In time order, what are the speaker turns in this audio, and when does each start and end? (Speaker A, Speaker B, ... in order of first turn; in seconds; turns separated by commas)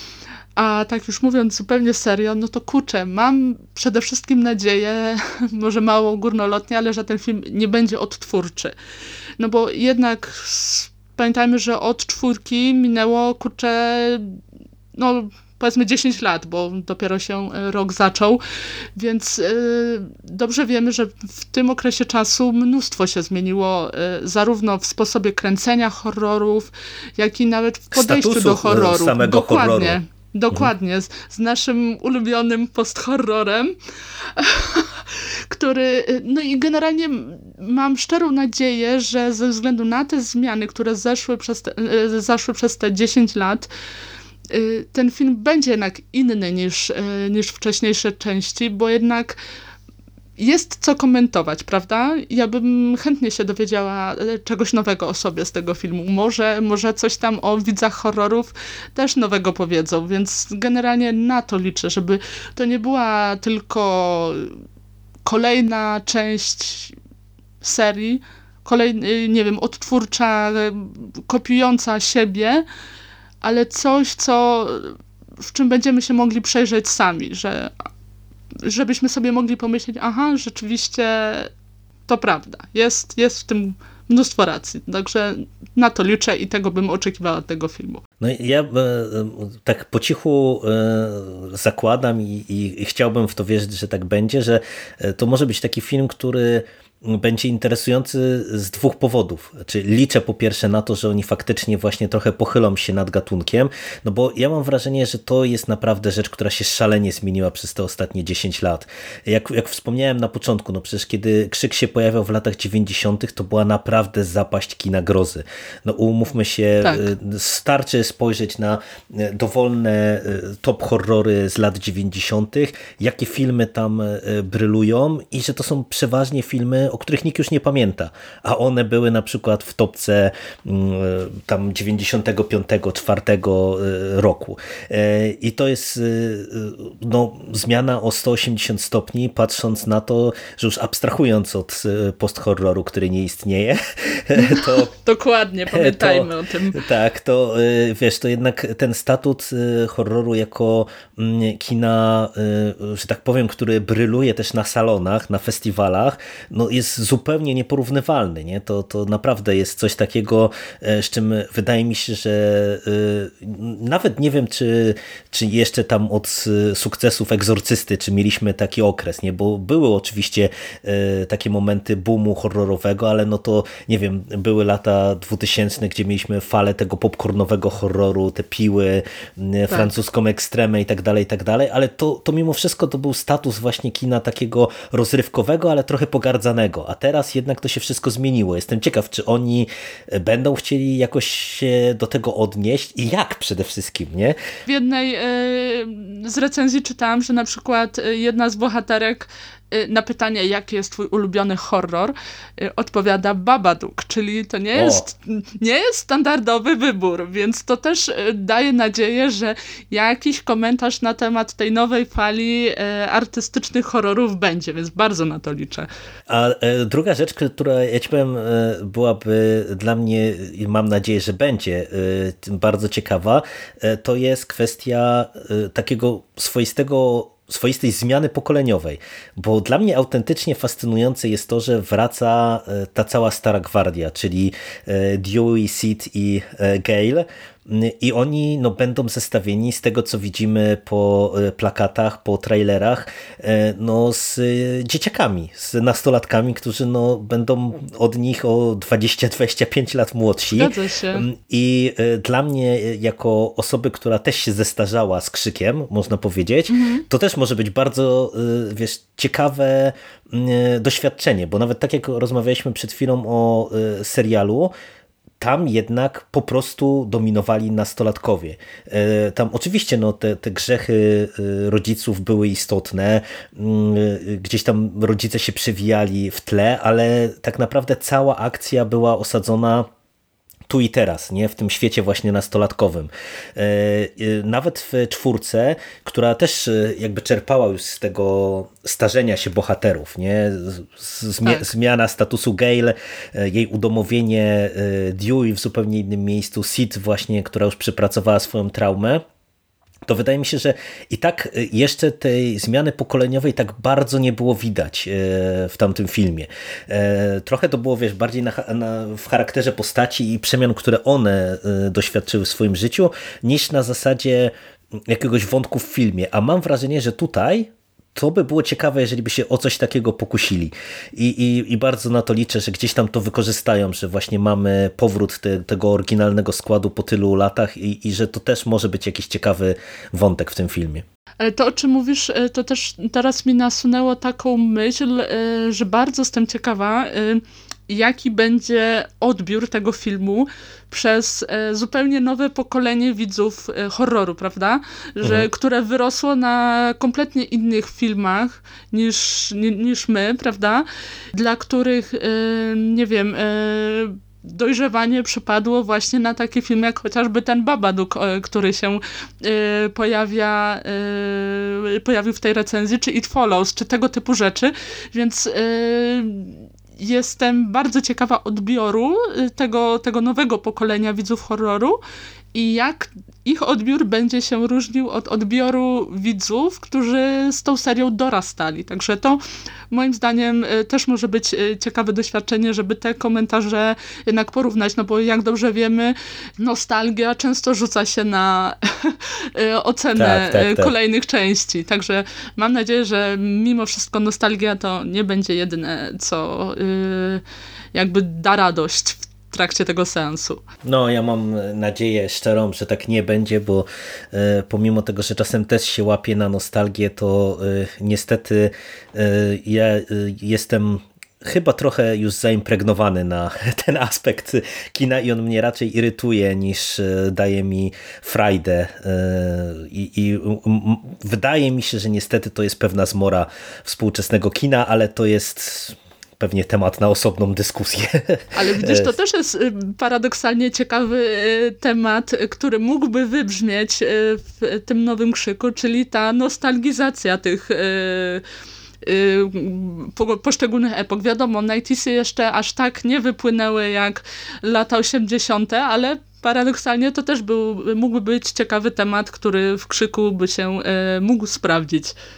Speaker A: 0.6-8.8, Speaker A: 9.4-14.4, Speaker A: 14.9-18.4, Speaker A: 19.0-43.7, Speaker B: 27.9-30.0, Speaker A: 44.5-49.4, Speaker A: 50.4-64.6, Speaker A: 65.3-67.0, Speaker A: 67.6-72.7, Speaker A: 73.4-77.7, Speaker A: 78.6-81.5, Speaker A: 82.1-88.0, Speaker B: 88.2-144.9, Speaker A: 144.4-146.8, Speaker B: 145.7-194.4, Speaker A: 194.7-215.9, Speaker B: 204.7-205.1, Speaker B: 216.3-264.7, Speaker A: 250.5-251.3, Speaker A: 256.7-257.0, Speaker B: 265.4-279.9, Speaker B: 280.7-299.2, Speaker B: 300.1-331.1, Speaker A: 331.4-372.0, Speaker B: 345.2-345.5, Speaker A: 372.5-397.4, Speaker B: 390.2-390.9, Speaker A: 397.9-400.6, Speaker B: 400.8-429.1, Speaker A: 428.5-438.4, Speaker A: 439.0-452.1